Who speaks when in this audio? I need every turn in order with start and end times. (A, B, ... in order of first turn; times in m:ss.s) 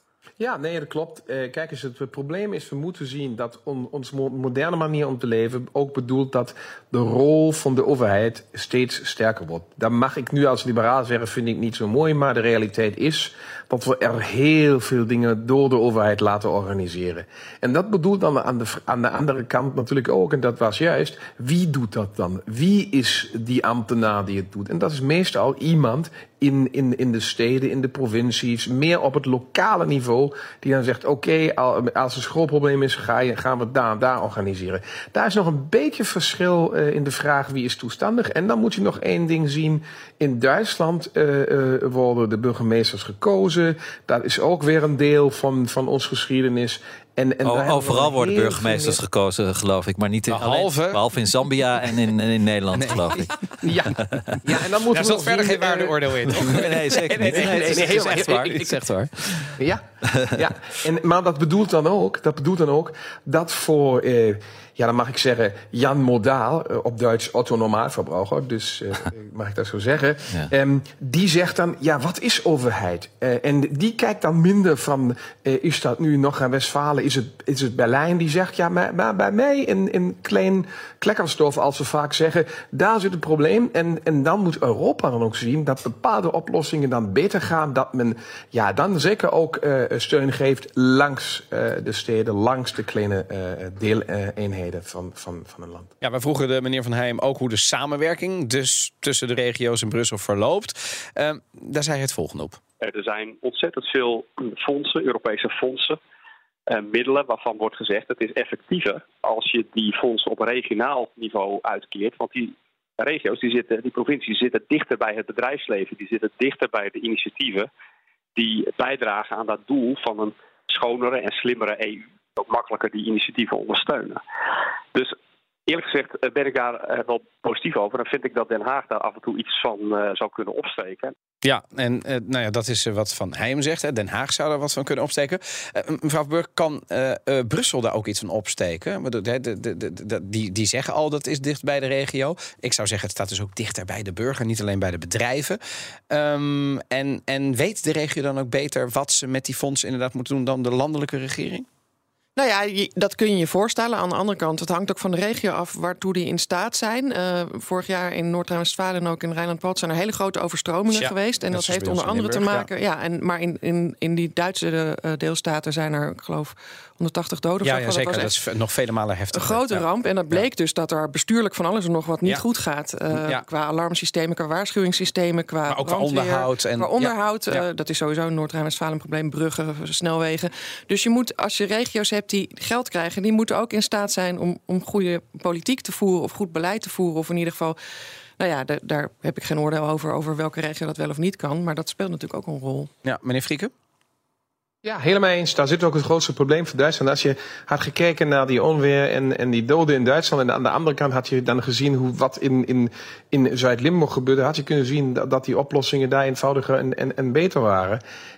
0:00.4-0:49.0 A
0:47.4-0:53.3 B
0:50.3-0:51.0 C
0:52.7-0:59.4 C
0:53.6-0:58.6 A
0:54.0-0:54.4 B
0:56.3-0:59.5 B
0:59.5-1:35.9 A
1:36.0-1:42.6 C
1:42.8-1:46.0 D
1:46.7-1:57.7 D
1:58.4-2:04.2 D
2:04.9-2:11.1 D
2:11.4-2:25.6 C
2:26.1-2:31.6 C
2:32.4-2:48.3 E
2:40.9-2:42.7 C
2:47.6-2:50.4 C
2:49.3-3:07.8 E
2:53.1-2:53.4 C
2:55.7-2:57.6 C
3:08.4-3:12.9 E
3:13.0-3:13.7 C
3:14.8-3:28.0 A